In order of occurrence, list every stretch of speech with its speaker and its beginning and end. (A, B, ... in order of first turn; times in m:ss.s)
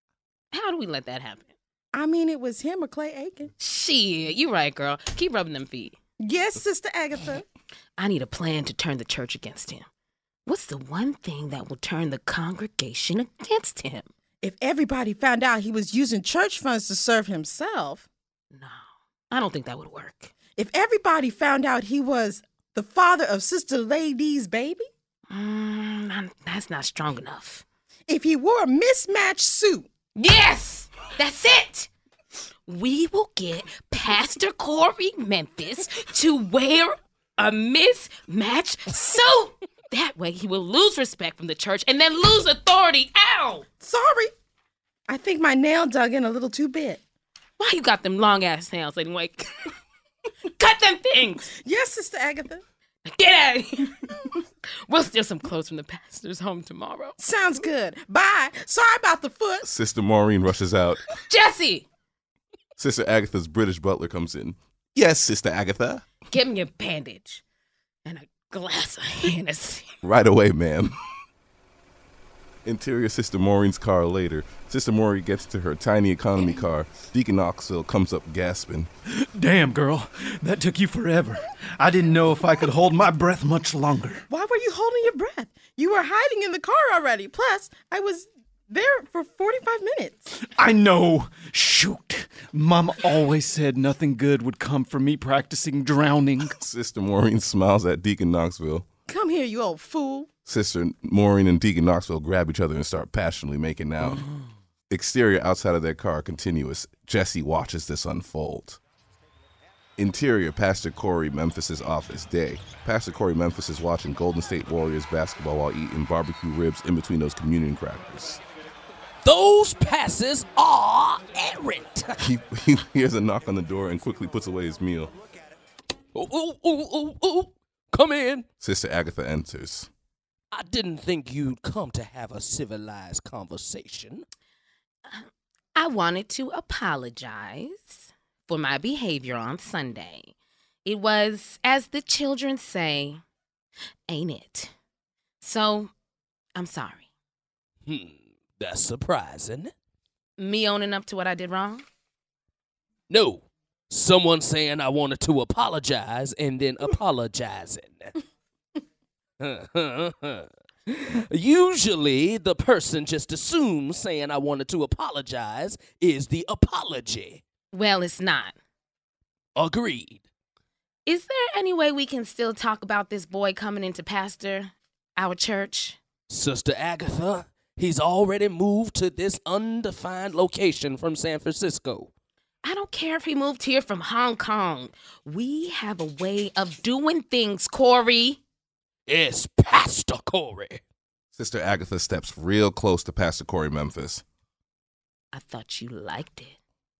0:00.5-0:01.5 A
0:01.9-0:03.5 B
0:03.6-0:06.0 A
0:06.2-0:07.4 B
0:08.0-0:09.8 A
0:10.4-0:14.1 A
0:14.4-0:18.1 B
0:18.5-0:18.8 A
0:19.3-0:20.3 A
0:20.6-0:24.8 B
0:25.3-0:27.6 A
0:28.1-0:29.9 B
0:30.2-0:31.9 A
0:32.7-0:43.6 A
0:43.8-0:44.3 B
0:45.1-0:47.0 B
0:47.6-0:49.5 A
0:50.5-0:51.5 A
0:51.6-0:52.6 B
0:53.0-0:54.1 A
0:54.9-0:57.2 A
0:57.2-0:59.6 B
0:59.6-1:01.0 C
1:01.3-1:01.8 A
1:02.8-1:06.0 C
1:06.3-1:07.4 A
1:08.0-1:09.9 A
1:10.0-1:11.0 C
1:12.6-1:18.9 C
1:19.1-1:24.2 D
1:24.3-1:30.3 B
1:30.4-1:36.6 D
1:36.5-1:38.8 C
1:39.1-1:40.3 B
1:40.4-1:44.2 C
1:44.9-1:48.8 C
1:50.0-1:58.4 C
1:59.2-2:02.2 E
2:02.2-2:05.1 C
2:06.1-2:08.4 E
2:08.6-2:09.9 C
2:10.5-2:14.2 E
2:15.1-2:20.3 A
2:20.8-2:23.2 A
2:24.1-2:24.7 A
2:25.4-2:25.9 A
2:26.5-2:27.1 A
2:27.9-2:29.7 E
2:30.4-2:31.8 A
2:33.1-2:38.1 E
2:39.4-2:47.4 E
2:47.7-2:48.5 A
2:49.6-2:50.2 E
2:51.0-2:56.0 A
2:56.3-3:02.1 E
3:02.6-3:08.4 A
3:09.1-3:10.8 E
3:11.3-3:14.2 C
3:15.3-3:16.5 A